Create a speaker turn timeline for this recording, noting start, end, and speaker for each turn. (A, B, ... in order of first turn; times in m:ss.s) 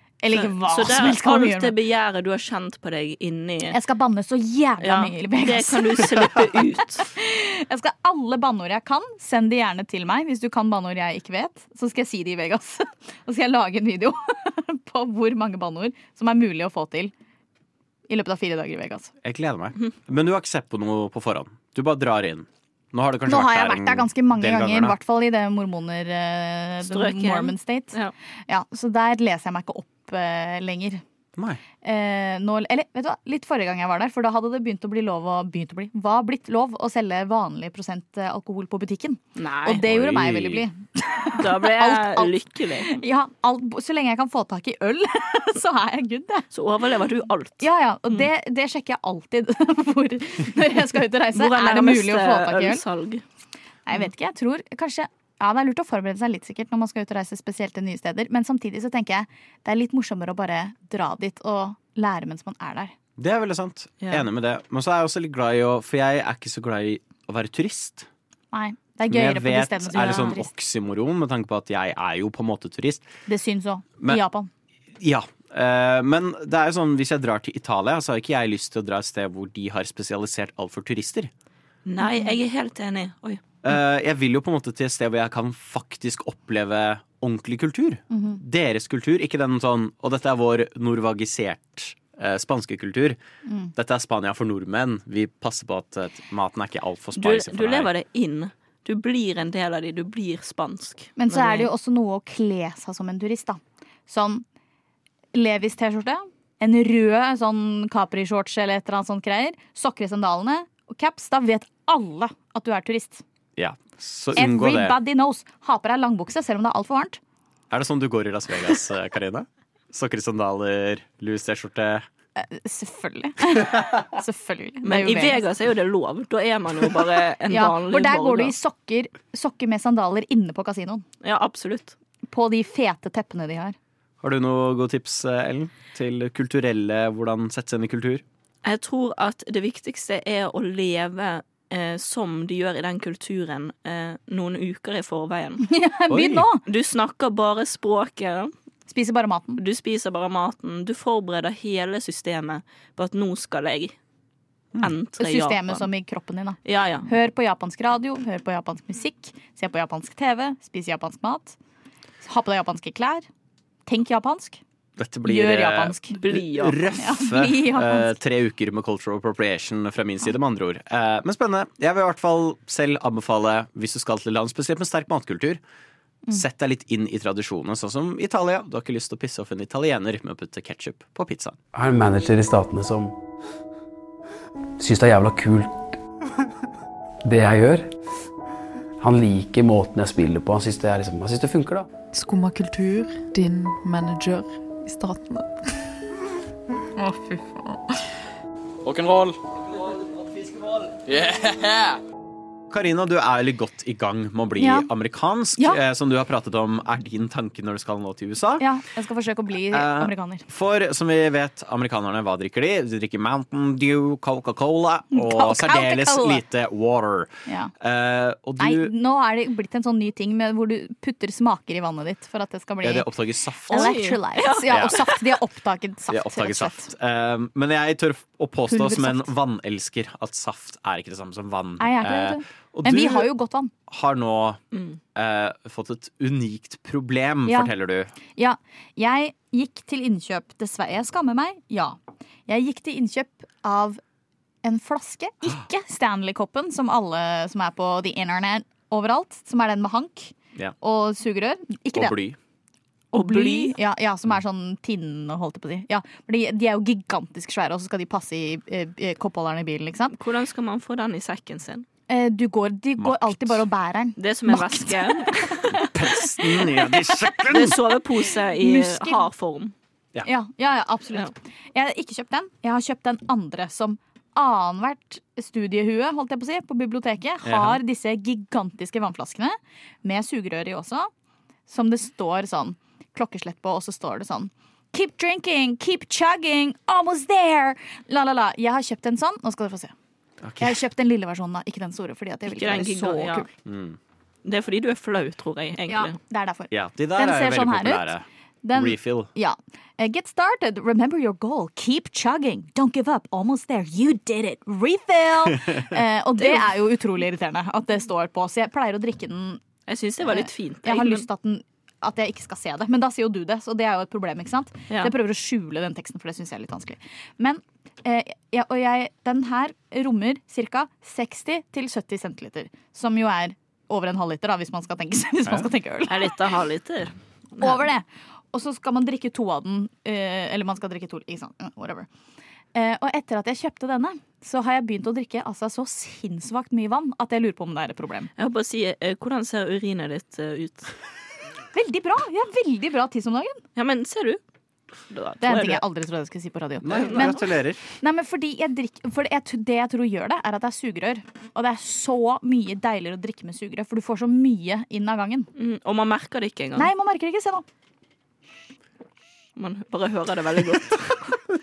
0:00.2-0:01.7 A
0:00.3-0:03.8 B
0:03.7-0:06.5 A
0:04.8-0:07.1 B
0:07.1-0:17.1 A
0:18.1-0:19.1 A
0:19.2-0:25.0 C
0:23.3-0:27.9 A
0:26.8-0:28.1 B
0:28.5-0:31.0 A
0:31.4-0:31.6 C
0:31.8-0:46.4 A
0:39.4-0:39.8 B
0:39.7-0:40.6 C
0:41.4-0:43.0 B
0:46.5-0:48.2 B
0:47.6-0:52.8 A
0:51.3-0:53.2 B
0:53.9-1:02.9 A
1:03.2-1:08.1 C
1:04.0-1:04.2 B
1:08.5-1:10.5 A
1:09.0-1:13.1 C
1:13.3-1:14.5 A
1:15.0-1:21.3 C
1:21.8-1:23.4 B
1:22.0-1:22.3 A
1:23.6-1:33.2 C
1:28.1-1:28.4 A
1:33.4-1:33.7 A
1:33.7-1:37.9 C
1:37.2-1:41.7 B
1:41.2-1:44.4 A
1:45.3-1:53.2 A
1:53.6-1:55.0 C
1:54.3-1:57.2 A
1:57.7-2:02.0 C
2:02.4-2:05.4 A
2:04.8-2:08.5 B
2:07.5-2:11.0 A
2:11.2-2:12.0 B
2:12.3-2:13.8 A
2:14.2-2:18.2 C
2:18.6-2:25.6 B
2:25.6-2:26.6 A
2:26.1-2:26.4 C
2:26.6-2:28.5 B
2:28.9-2:29.6 A
2:29.6-2:34.0 B
2:34.8-2:35.9 B
2:35.2-2:41.6 A
2:36.6-2:37.1 B
2:42.2-2:43.3 A
2:43.9-2:44.6 A
2:45.0-2:55.6 C
2:45.2-2:46.2 A
2:46.1-2:46.8 B
2:47.0-2:48.2 A
2:56.3-3:01.6 C
3:01.7-3:03.1 D
3:04.8-3:06.0 D
3:07.2-3:07.9 D
3:09.0-3:11.9 D
3:12.1-3:15.7 E
3:17.0-3:17.8 E
3:18.8-3:19.4 C
3:21.1-3:21.6 C
3:22.7-3:28.6 C
3:24.6-3:24.9 A
3:28.6-3:30.4 A
3:29.7-3:38.9 C
3:35.1-3:36.4 A
3:37.5-3:37.7 A
3:38.6-3:43.1 A
3:42.8-3:44.0 C
3:43.7-3:46.9 A
3:43.7-3:45.2 B
3:44.7-3:45.0 C
3:46.1-3:53.3 C
3:48.7-3:49.3 A
3:51.8-3:53.7 A
3:53.9-3:54.6 C
3:54.7-3:55.0 B
3:55.1-3:58.1 C
3:57.4-3:57.7 A
3:58.3-4:04.0 A
4:04.6-4:12.2 A
4:11.9-4:12.4 C
4:13.1-4:13.7 B
4:13.1-4:20.2 A
4:20.2-4:21.8 B
4:22.1-4:27.2 A
4:23.0-4:23.6 C
4:24.2-4:25.8 B
4:25.9-4:27.8 C
4:27.5-4:29.7 B
4:28.6-4:29.3 A
4:30.2-4:41.1 A
4:37.4-4:37.8 C
4:41.7-4:49.9 A
4:50.4-4:50.8 C
4:50.6-4:53.5 A
4:52.4-4:53.5 B
4:53.6-4:54.0 C
4:54.4-4:56.2 B
4:55.9-4:58.1 A
4:56.7-4:59.3 C
4:58.6-5:09.6 A
5:05.5-5:06.0 C
5:09.9-5:11.2 B
5:10.2-5:26.4 A
5:26.1-5:27.8 B
5:27.6-5:32.1 A
5:32.7-5:38.3 A
5:38.4-5:40.9 B
5:41.7-5:43.6 A
5:43.8-5:44.4 B
5:45.1-5:45.8 B
5:45.4-5:47.4 A
5:46.8-5:47.8 C
5:47.0-5:47.4 B
5:48.0-5:55.5 A
5:55.6-5:56.9 B
5:56.7-5:57.6 A
5:59.6-6:01.4 B